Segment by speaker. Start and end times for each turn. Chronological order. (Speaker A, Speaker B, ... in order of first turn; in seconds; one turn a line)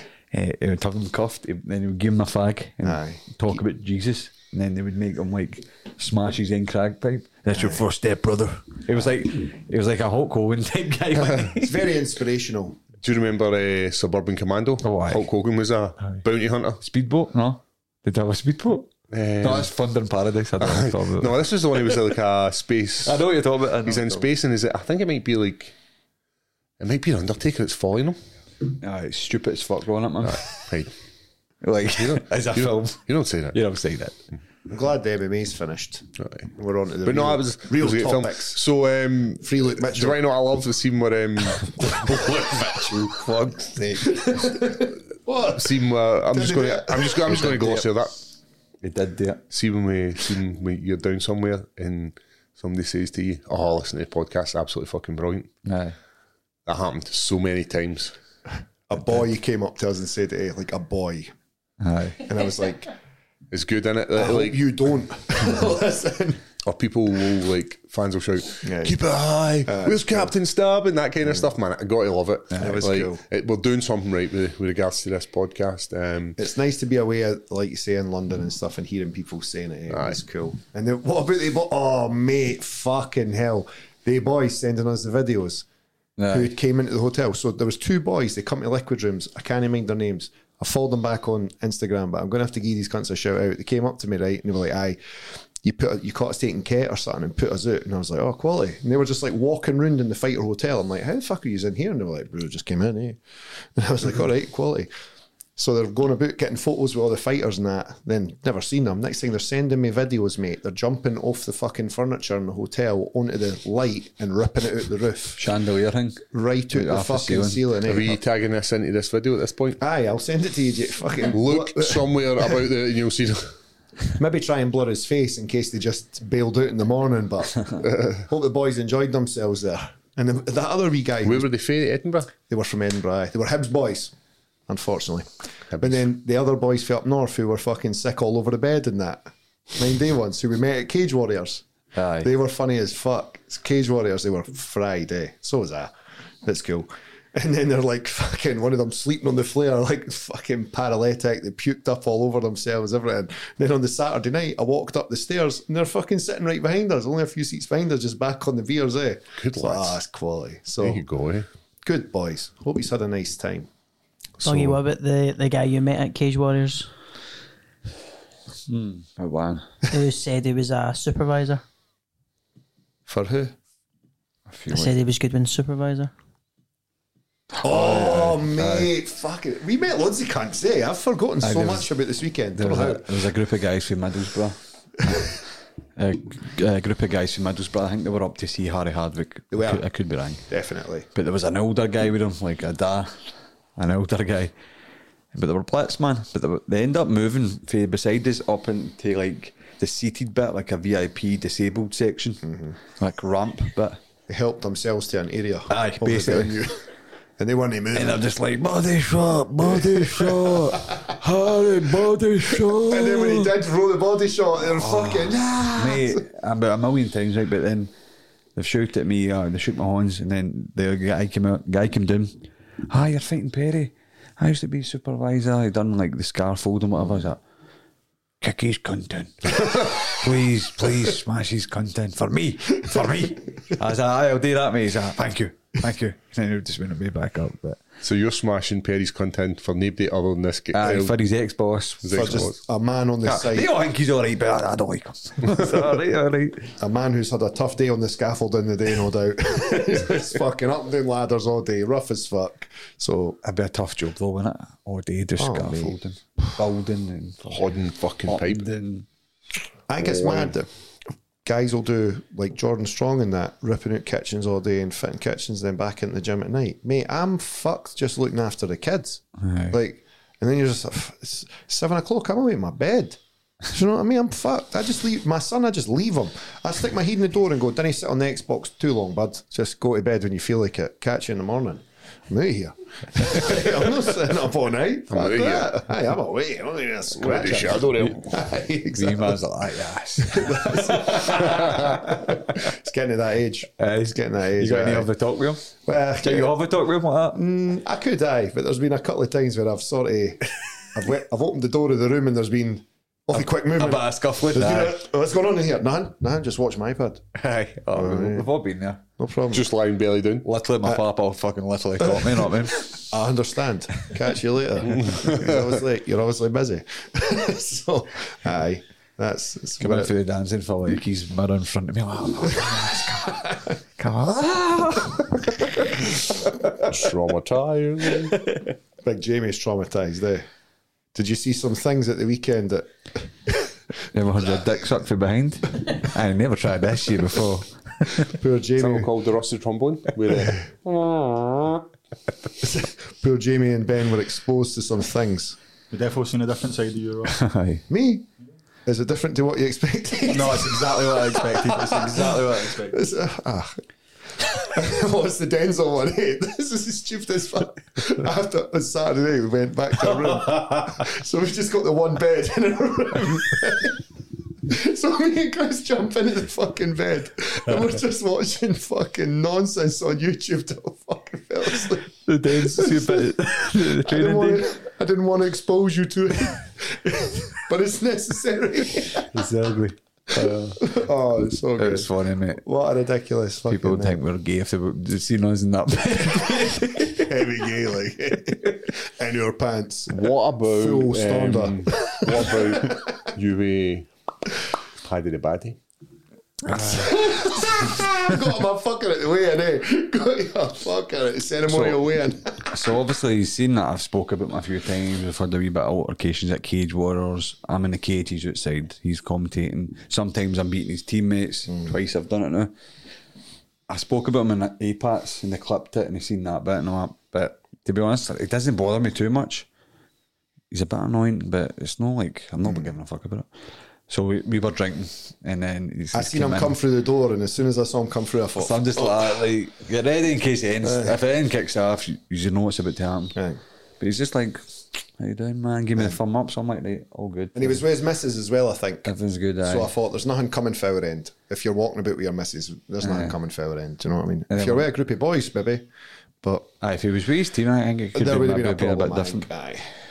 Speaker A: 0.3-11.8
Speaker B: 2.8-3.6
Speaker B: 7.5-7.8
Speaker B: 11.6-12.8
Speaker C: 13.0-16.8
Speaker A: 14.8-15.3
Speaker A: 16.8-18.9
Speaker C: 19.1-19.7
Speaker A: 19.4-21.4
Speaker C: 20.6-23.2
Speaker A: 23.0-24.3
Speaker C: 23.9-25.8
Speaker C: 26.8-28.2
Speaker A: 28.8-30.7
Speaker C: 30.2-30.9
Speaker A: 31.6-33.0
Speaker C: 31.9-33.6
Speaker A: 33.5-34.2
Speaker B: 34.7-36.0
Speaker B: 36.6-38.6
Speaker C: 37.0-42.9
Speaker B: 39.4-40.2
Speaker A: 42.2-44.0
Speaker B: 43.8-47.5
Speaker C: 45.5-48.1
Speaker A: 47.4-47.9
Speaker A: 48.8-49.4
Speaker C: 49.5-55.5
Speaker A: 55.7-56.0
Speaker C: 56.7-58.1
Speaker B: 58.9-61.3
Speaker A: 61.8-62.2
Speaker B: 62.3-62.9
Speaker C: 63.5-64.7
Speaker B: 64.1-66.4
Speaker C: 66.6-76.4
Speaker B: 68.6-69.0
Speaker B: 69.7-70.3
Speaker A: 72.5-72.8
Speaker B: 72.6-73.2
Speaker B: 76.4-85.7
Speaker C: 79.9-80.2
Speaker A: 86.2-86.5
Speaker B: 86.3-95.0
Speaker B: 95.6-103.2
Speaker B: 103.8-104.9
Speaker B: 105.6-115.4
Speaker A: 115.4-117.7
Speaker B: 116.3-118.2
Speaker C: 117.9-119.8
Speaker B: 119.8-122.6
Speaker C: 121.3-123.5
Speaker B: 124.2-131.5
Speaker C: 127.8-128.2
Speaker C: 131.2-132.3
Speaker B: 132.5-134.1
Speaker B: 134.7-135.3
Speaker C: 135.7-136.0
Speaker B: 135.8-141.6
Speaker A: 141.9-142.3
Speaker B: 142.2-145.9
Speaker B: 146.4-161.0
Speaker C: 159.4-160.0
Speaker C: 160.8-161.5
Speaker B: 161.8-163.7
Speaker D: 164.4-166.9
Speaker A: 168.7-169.7
Speaker D: 169.9-171.6
Speaker B: 173.1-173.6
Speaker A: 174.5-175.0
Speaker D: 174.7-176.1
Speaker A: 177.6-178.9
Speaker B: 177.6-183.1
Speaker A: 181.4-181.9
Speaker A: 182.6-185.3
Speaker A: 186.0-190.4
Speaker B: 189.5-189.8
Speaker B: 190.5-191.1
Speaker A: 191.1-193.1
Speaker A: 193.8-194.5
Speaker A: 195.3-204.0
Speaker B: 202.4-202.8
Speaker B: 204.3-206.8
Speaker A: 205.7-206.7
Speaker B: 207.4-208.2
Speaker A: 207.9-213.6
Speaker B: 209.6-211.0
Speaker B: 212.5-216.2
Speaker A: 214.7-217.9
Speaker A: 218.6-227.4
Speaker A: 228.4-237.8
Speaker C: 238.0-241.1
Speaker A: 240.7-242.4
Speaker C: 242.0-242.6
Speaker B: 242.1-243.7
Speaker A: 243.2-246.8
Speaker B: 246.8-253.4
Speaker A: 253.4-257.7
Speaker B: 255.4-256.0
Speaker C: 257.5-258.6
Speaker A: 258.3-259.1
Speaker B: 259.9-260.7
Speaker C: 260.0-260.5
Speaker B: 261.4-273.2
Speaker A: 269.4-269.8
Speaker B: 273.7-289.4
Speaker C: 285.1-285.8
Speaker C: 287.2-288.3
Speaker A: 288.9-291.8
Speaker B: 290.2-295.1
Speaker A: 293.8-297.4
Speaker B: 295.9-296.5
Speaker B: 297.4-307.2
Speaker A: 303.4-305.0
Speaker A: 307.4-309.0
Speaker B: 307.9-308.5
Speaker B: 309.2-309.7
Speaker C: 309.5-310.5
Speaker A: 310.4-313.0
Speaker B: 312.0-320.1
Speaker C: 314.9-315.7
Speaker A: 319.8-323.4
Speaker B: 322.7-323.7
Speaker A: 324.0-325.3
Speaker C: 326.8-328.4
Speaker B: 329.0-330.5
Speaker B: 331.1-333.5
Speaker A: 334.1-338.3
Speaker B: 338.2-339.1
Speaker C: 338.8-341.3
Speaker B: 342.6-345.6
Speaker E: 345.9-347.4
Speaker A: 347.3-347.8
Speaker B: 347.9-348.3
Speaker B: 348.9-353.8
Speaker E: 350.3-353.0
Speaker B: 354.4-364.0
Speaker B: 364.6-379.4
Speaker A: 372.2-374.7
Speaker A: 379.3-380.8
Speaker C: 380.8-382.1
Speaker B: 380.8-381.2
Speaker A: 381.8-382.6
Speaker B: 382.6-384.2
Speaker A: 383.7-387.3
Speaker B: 387.2-393.1
Speaker C: 390.1-394.1
Speaker C: 395.0-395.8
Speaker A: 396.7-397.2
Speaker B: 396.7-402.8
Speaker A: 402.7-412.7
Speaker A: 413.9-419.7
Speaker A: 420.7-423.5
Speaker A: 424.1-426.8
Speaker B: 426.1-429.3
Speaker A: 428.6-433.4
Speaker B: 430.8-431.2
Speaker A: 434.0-434.6
Speaker A: 435.2-437.8
Speaker B: 437.6-439.1
Speaker A: 439.0-439.9
Speaker B: 439.6-445.9
Speaker A: 443.0-443.4
Speaker A: 444.5-444.9
Speaker B: 446.4-446.7
Speaker A: 446.8-449.5
Speaker B: 448.1-449.9